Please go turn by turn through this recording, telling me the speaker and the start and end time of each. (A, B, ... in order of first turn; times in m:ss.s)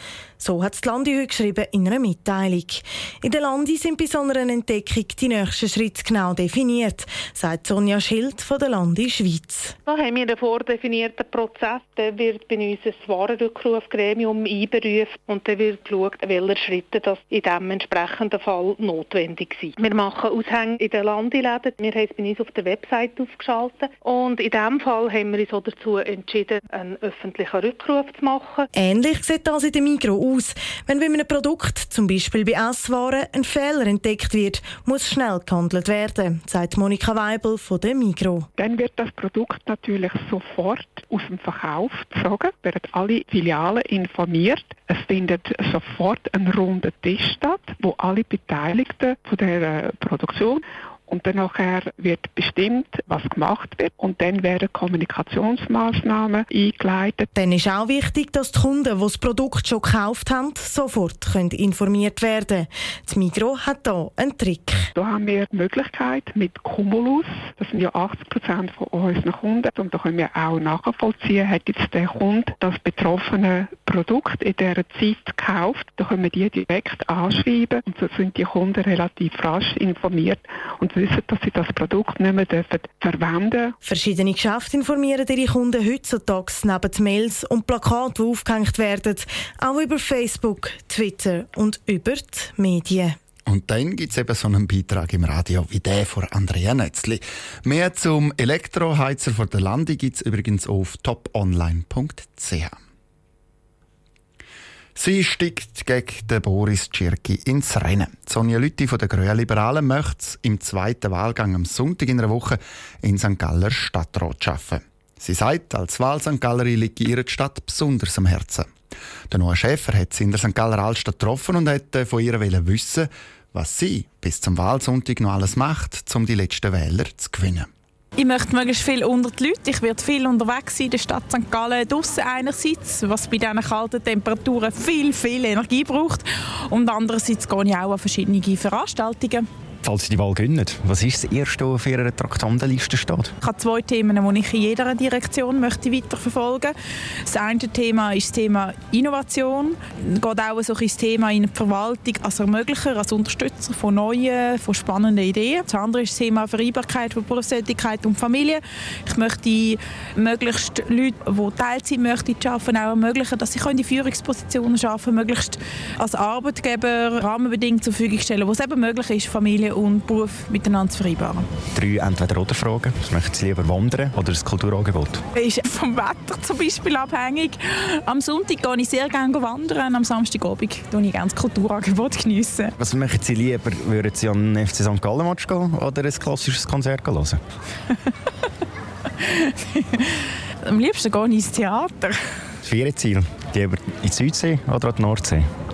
0:00.4-0:09.7 A
0:09.8-0:28.6 B
0:28.7-0:38.5 A
0:38.6-0:57.3 C
0:57.3-1:04.9 A
1:05.0-1:23.7 C
1:23.8-1:33.2 A
1:33.5-1:42.8 D
1:44.9-1:58.7 D
1:59.3-2:07.7 D
2:08.2-2:19.4 E
2:19.8-2:23.3 F
2:23.4-2:51.4 E
2:51.7-2:55.2 F
2:55.3-3:02.7 E
3:02.8-3:07.4 F
3:09.2-3:12.2 E
3:12.6-3:15.5 F